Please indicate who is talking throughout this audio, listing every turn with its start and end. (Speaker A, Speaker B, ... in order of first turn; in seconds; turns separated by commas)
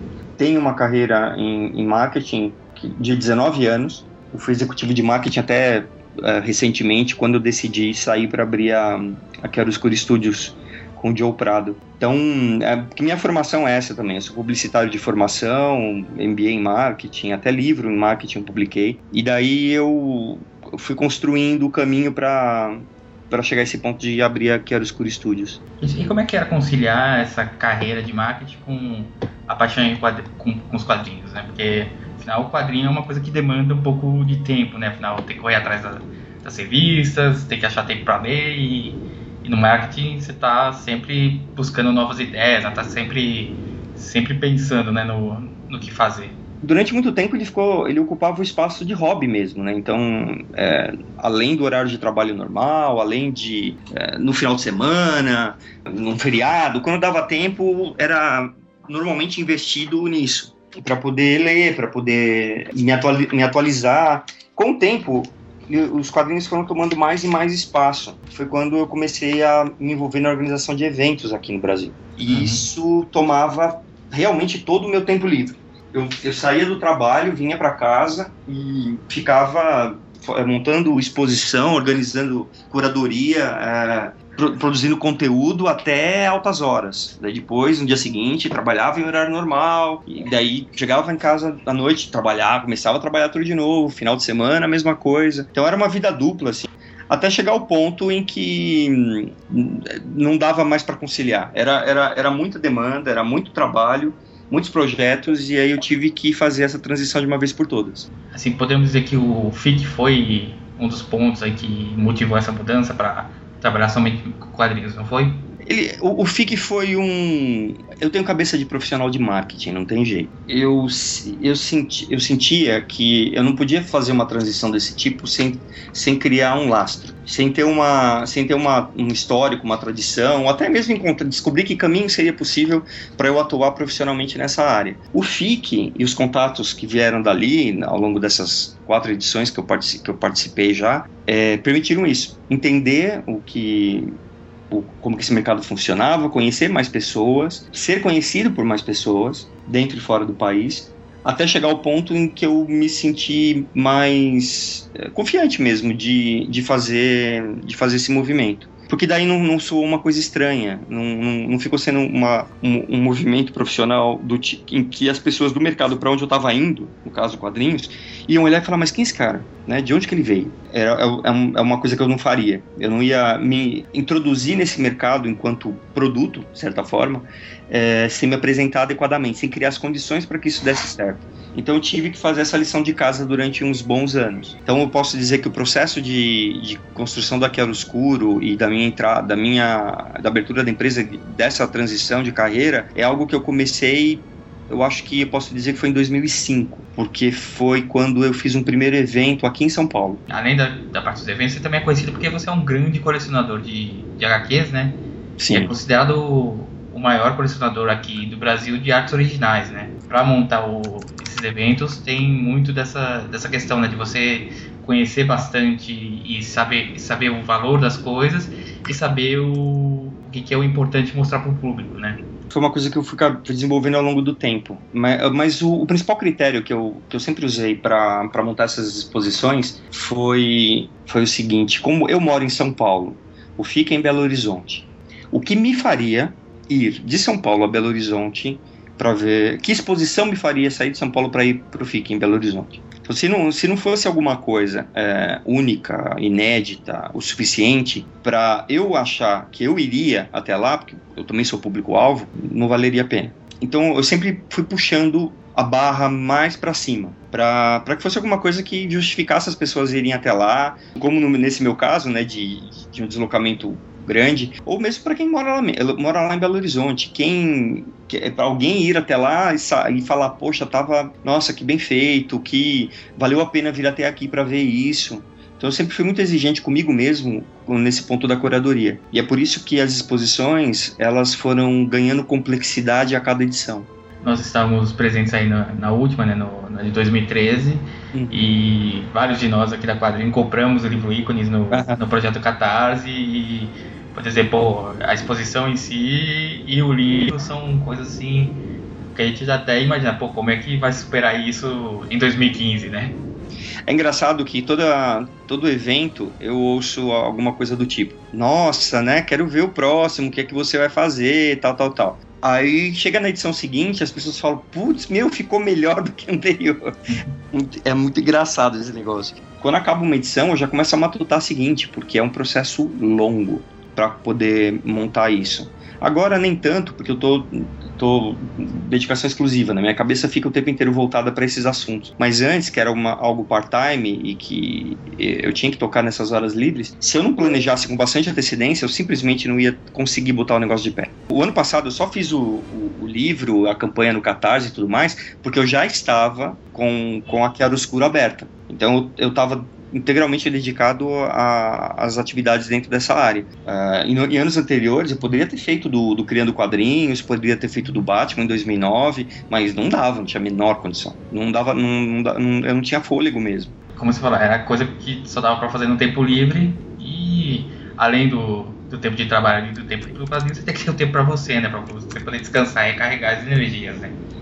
Speaker A: 0.4-25.6, Speaker B: 25.8-46.4, Speaker A: 46.6-108.1, Speaker B: 72.3-72.6, Speaker B: 108.3-115.4, Speaker A: 115.6-144.1, Speaker A: 144.7-200.2, Speaker B: 200.3-205.0, Speaker A: 205.4-205.7, Speaker B: 205.5-222.2, Speaker A: 222.5-283.9, Speaker B: 284.2-298.6, Speaker A: 291.7-292.0, Speaker B: 299.1-303.1, Speaker A: 303.9-316.9, Speaker B: 317.1-317.4, Speaker A: 317.5-363.7, Speaker B: 363.9-374.2